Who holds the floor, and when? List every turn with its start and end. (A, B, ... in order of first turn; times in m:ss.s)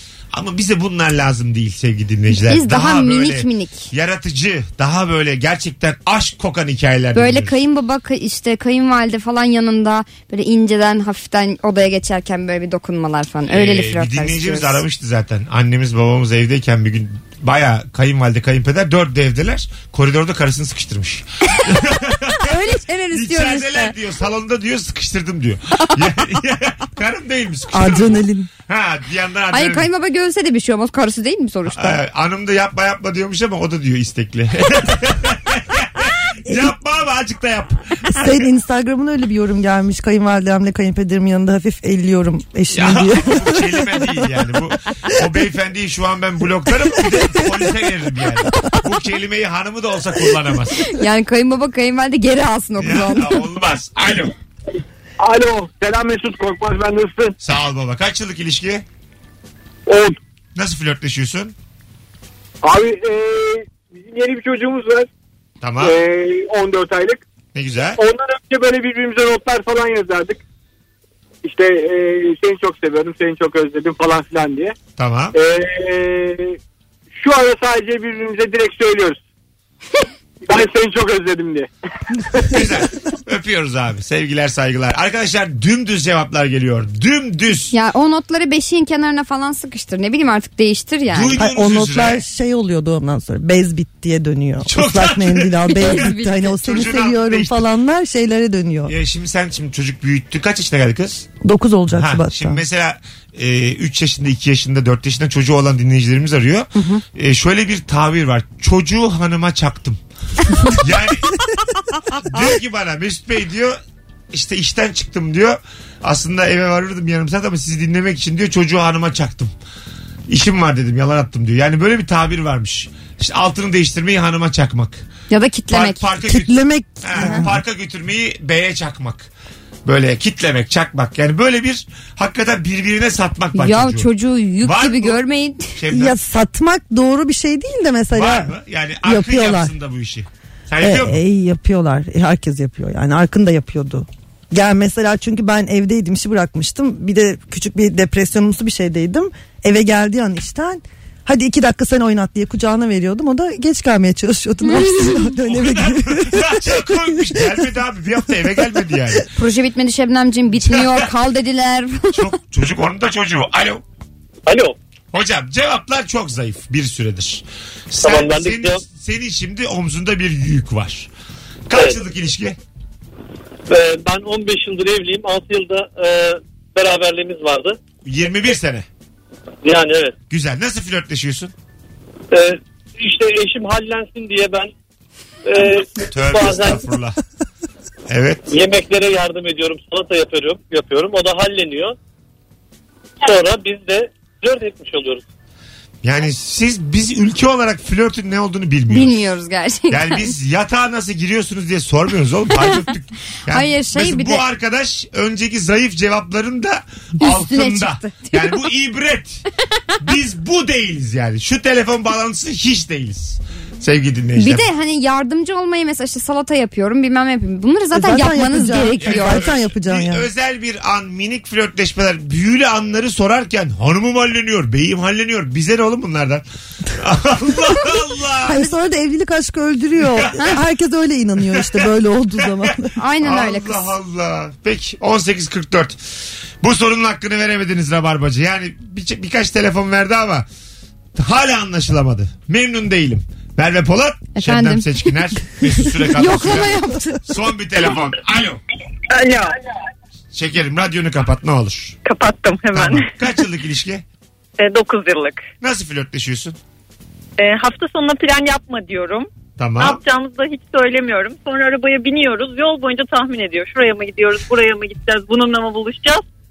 0:00.3-0:07.6 A
0:02.3-0:03.9 B
0:07.2-0:14.8 B
0:13.5-0:22.5 A
0:22.4-0:23.9 B
0:23.1-0:29.9 A
0:27.7-0:28.5 C
0:29.5-0:32.0 B
0:31.7-0:38.3 A
0:36.5-0:36.7 C
0:38.1-0:43.9 C
0:42.7-0:50.8 A
0:50.9-0:53.4 B
0:52.8-0:54.3 A
0:55.2-0:57.4 D
0:57.4-0:58.8 A
0:59.9-1:00.2 D
1:00.6-1:01.5 A
1:02.6-1:05.1 D
1:05.6-1:06.0 A
1:05.8-1:07.2 D
1:07.5-1:08.0 A
1:08.0-1:10.4 D
1:11.4-1:14.8 D
1:15.0-1:15.4 A
1:15.3-1:16.6 D
1:17.2-1:19.2 D
1:20.4-1:21.7 D
1:22.3-1:22.6 D
1:22.5-1:27.7 A
1:27.7-1:31.4 B
1:31.1-1:32.2 A
1:31.4-1:38.9 C
1:34.7-1:37.6 A
1:35.8-1:36.4 B
1:38.9-1:41.3 A
1:41.4-1:42.6 C
1:41.9-1:50.0 A
1:50.7-1:51.3 A
1:52.2-1:53.8 A
1:54.3-1:59.5 A
2:00.3-2:05.0 A
2:05.3-2:06.0 B
2:05.7-2:09.3 A
2:06.2-2:07.6 C
2:09.8-2:14.1 A
2:13.6-2:15.8 B
2:14.6-2:15.2 A
2:15.8-2:16.2 A
2:15.9-2:18.5 C
2:18.1-2:21.2 A
2:19.0-2:19.7 C
2:20.8-2:37.5 C
2:34.6-2:35.2 B
2:35.5-2:39.3 A
2:39.4-2:42.3 B
2:40.6-2:41.1 A
2:42.1-2:43.8 A
2:45.1-2:51.1 A
2:48.0-2:48.7 E
2:48.2-2:48.7 D
2:51.7-2:52.6 A
2:53.7-2:55.6 D
2:53.8-2:56.3 E
2:56.8-2:57.1 D
2:56.8-2:57.7 E
2:58.0-2:58.8 A
2:59.7-3:00.1 D
2:59.7-3:00.0 E
3:00.3-3:01.5 A
3:02.3-3:04.7 D
3:03.2-3:04.4 E
3:05.5-3:06.7 D
3:06.1-3:07.2 A
3:08.1-3:08.5 A
3:08.5-3:08.9 D
3:08.8-3:11.8 E
3:09.5-3:10.0 D
3:10.7-3:11.0 D
3:13.4-3:15.2 E
3:16.0-3:19.2 A
3:18.9-3:20.3 B
3:19.9-3:29.4 A
3:23.5-3:24.4 B
3:27.2-3:28.6 B
3:30.0-3:34.7 A
3:34.4-3:39.5 B
3:37.9-3:40.3 C
3:39.0-3:48.6 A
3:48.5-3:52.9 C
3:53.0-3:53.9 B
3:53.2-3:56.0 A
3:56.6-4:00.5 A
4:01.2-4:08.6 A
4:04.4-4:04.9 B
4:06.1-4:07.2 B
4:09.1-4:09.5 F
4:10.3-4:12.0 A
4:12.0-4:13.1 F
4:12.7-4:14.0 A
4:14.6-4:15.4 F
4:15.6-4:16.6 A
4:17.4-4:19.3 F
4:19.6-4:20.0 A
4:19.8-4:26.2 F